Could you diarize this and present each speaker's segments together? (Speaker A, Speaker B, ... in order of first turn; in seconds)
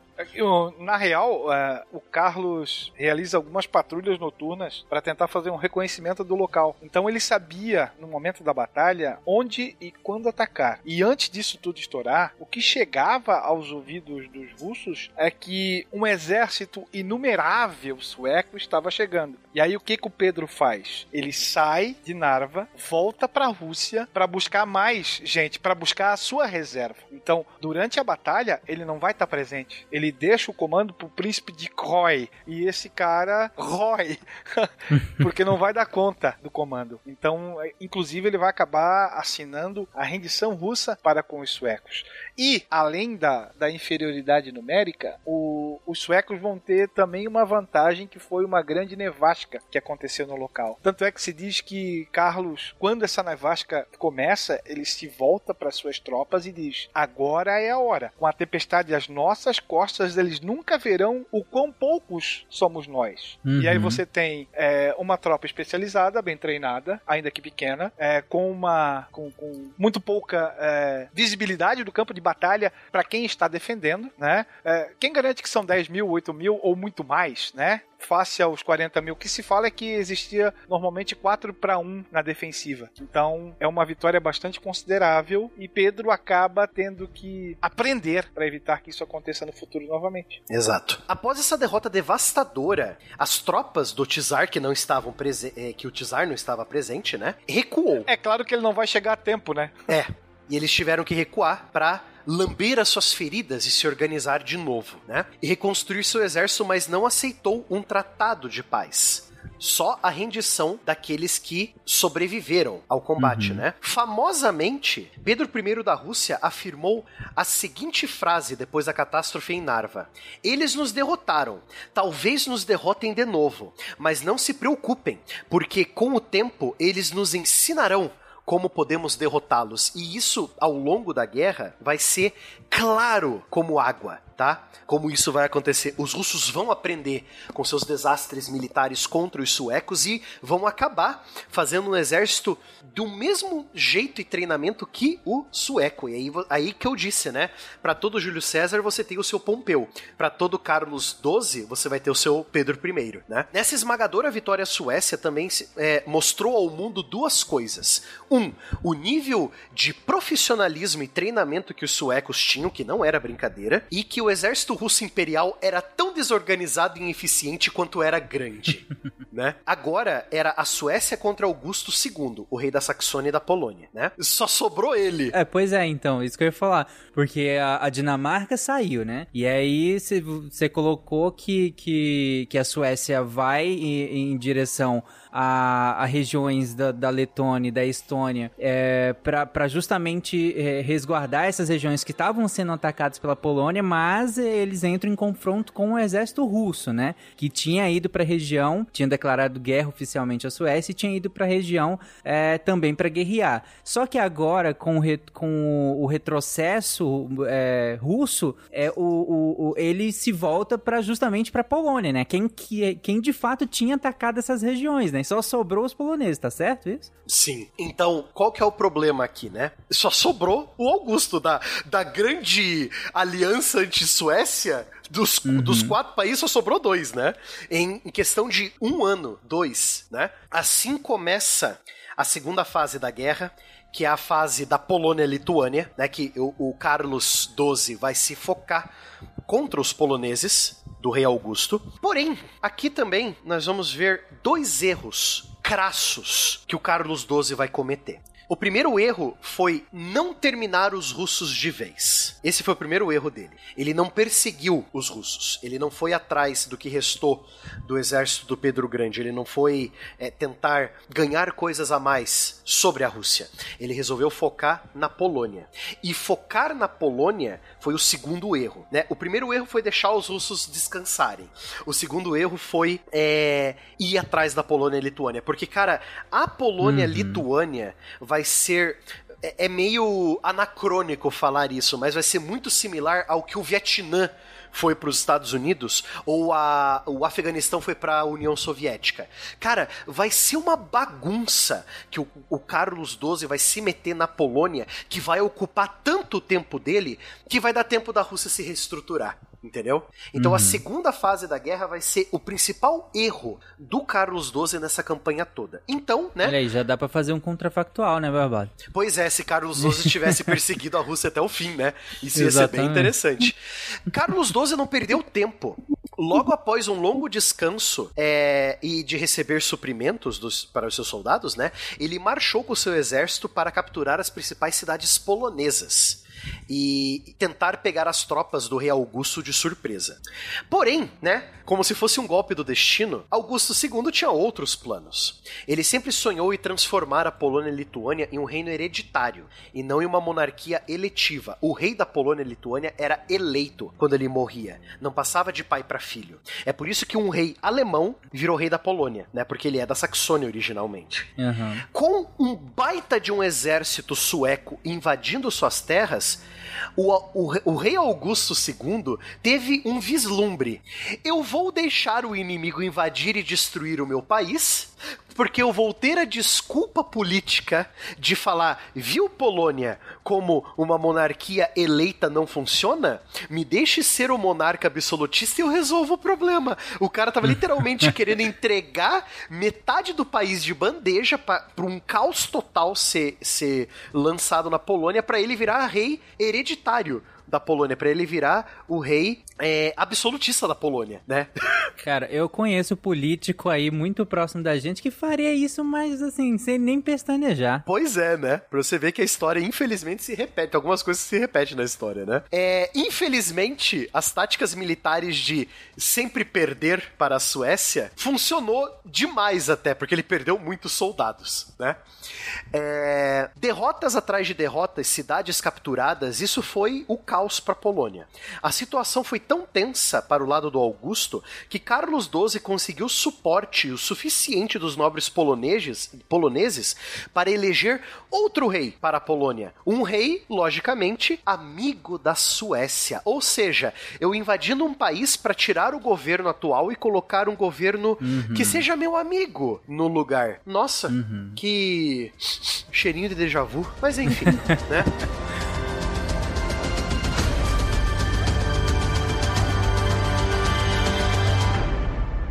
Speaker A: 0.2-90.4, 98.1-99.8
Speaker B: 35.0-35.2, 63.5-64.0, 113.2-113.7, 175.3-217.1, 225.5-226.0, 276.8-277.4, 300.4-300.8, 306.4-308.8, 309.8-310.4, 312.4-313.1, 351.4-351.8, 392.0-397.9, 438.2-438.9, 441.1-441.6, 444.3-444.8
Speaker C: 90.5-98.1, 99.9-175.3, 217.3-238.9, 239.5-306.6, 308.9-313.6, 314.1-351.3, 351.9-356.4, 357.0-391.5, 397.9-412.0, 412.7-445.1